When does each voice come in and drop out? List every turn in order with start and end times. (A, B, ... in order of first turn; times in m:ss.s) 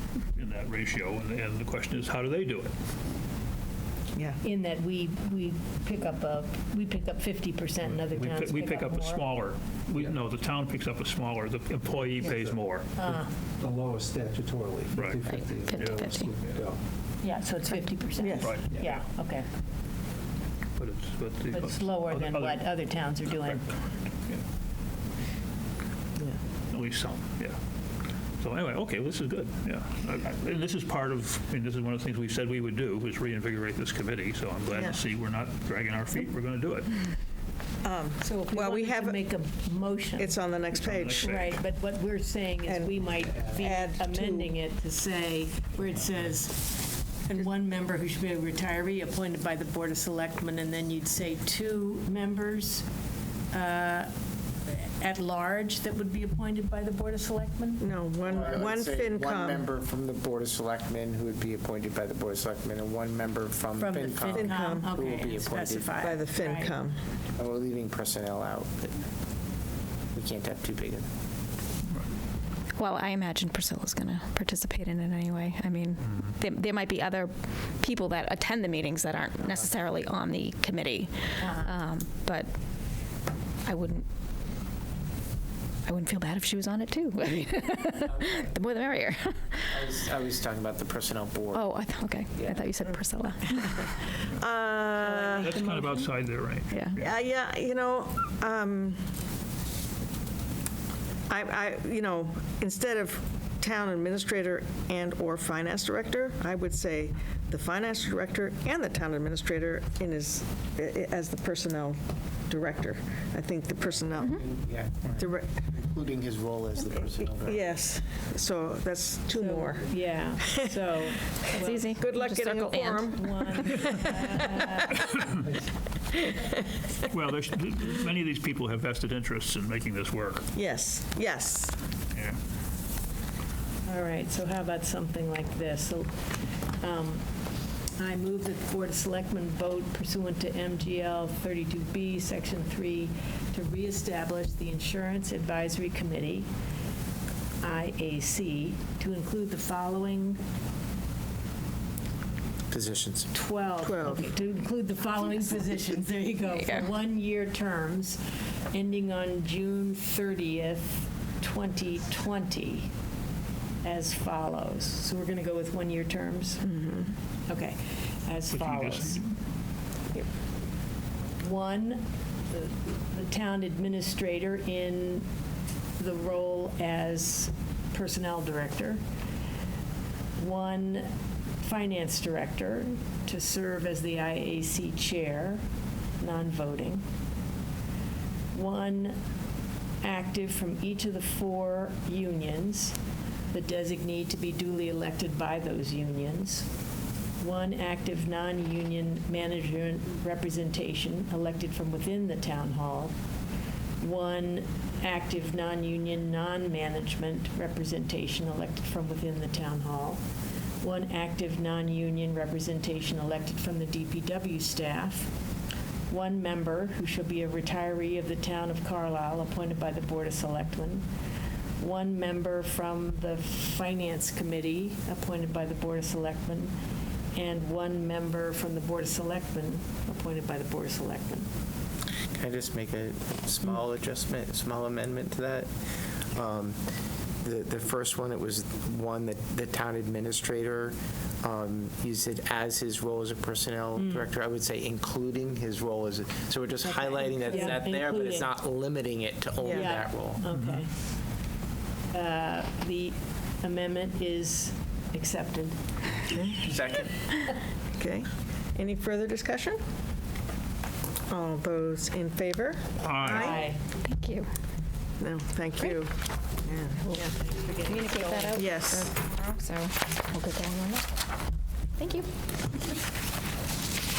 0:00.3-0:02.7 A
0:04.4-0:09.2 B
0:08.0-0:13.1 A
0:12.2-0:16.8 C
0:13.0-0:13.3 B
0:14.9-0:15.2 A
0:15.7-0:16.3 D
0:15.8-0:16.5 A
0:17.2-0:19.5 B
0:18.2-0:18.6 E
0:18.4-0:19.0 A
0:20.8-0:22.6 A
0:21.5-0:23.8 B
0:23.2-0:23.6 A
0:26.7-0:27.6 A
0:28.4-0:37.0 A
0:34.7-0:35.0 E
0:37.8-0:39.2 E
0:38.2-0:40.4 B
0:40.2-0:41.3 E
0:40.7-0:41.6 A
0:41.2-0:52.8 B
0:42.6-0:42.9 E
0:43.5-0:44.5 E
0:53.5-0:54.1 B
0:54.6-0:57.8 B
0:57.8-0:59.6 E
0:58.2-1:06.0 F
1:03.8-1:06.8 B
1:04.3-1:04.9 E
1:06.0-1:07.0 E
1:07.4-1:09.1 F
1:10.1-1:11.1 F
1:12.8-1:22.5 D
1:16.1-1:16.3 A
1:21.4-1:21.7 B
1:23.6-1:24.0 D
1:25.8-1:29.9 D
1:28.0-1:28.5 F
1:29.7-1:31.7 F
1:31.5-1:34.0 D
1:32.4-1:32.7 F
1:34.3-1:35.7 E
1:35.4-1:37.1 A
1:36.7-1:37.0 D
1:37.0-1:39.0 E
1:41.3-1:54.4 E
1:53.8-1:57.7 F
1:55.1-1:55.5 E
1:57.0-1:59.9 E
1:59.3-2:02.1 B
2:01.5-2:03.2 D
2:02.0-2:04.2 E
2:03.0-2:05.2 B
2:07.1-2:10.5 A
2:10.5-2:11.7 E
2:12.1-2:12.4 A
2:13.8-2:17.2 B
2:18.0-2:26.5 B
2:27.6-2:30.4 B
2:32.7-2:33.3 F
2:33.3-2:38.2 B
2:33.8-2:34.3 E
2:38.7-2:42.9 B
2:43.8-2:46.7 B
2:46.6-2:47.1 E
2:47.5-2:49.2 B
2:48.5-2:49.4 A
2:51.4-2:55.2 B
2:56.0-2:59.0 B
3:00.4-3:05.6 B
3:06.2-3:07.0 B
3:08.5-3:09.2 B
3:10.0-3:13.0 B
3:13.5-3:16.7 B
3:17.4-3:23.1 B
3:24.0-3:30.2 B
3:30.8-3:35.3 B
3:36.1-3:41.0 B
3:41.8-3:46.7 B
3:47.3-3:51.5 B
3:52.3-3:55.7 F
3:56.2-4:10.5 F
4:04.0-4:04.3 B
4:06.8-4:08.5 B
4:09.6-4:10.9 B
4:09.6-4:10.0 E
4:12.1-4:15.8 B
4:16.3-4:17.1 F
4:16.3-4:16.7 E
4:17.9-4:19.8 E
4:21.3-4:23.6 E
4:23.0-4:23.6 A
4:23.2-4:23.8 B
4:24.0-4:24.5 D
4:25.2-4:27.0 E
4:27.0-4:27.2 D
4:27.1-4:28.7 B
4:27.8-4:31.1 D
4:28.6-4:29.1 E
4:32.0-4:32.3 D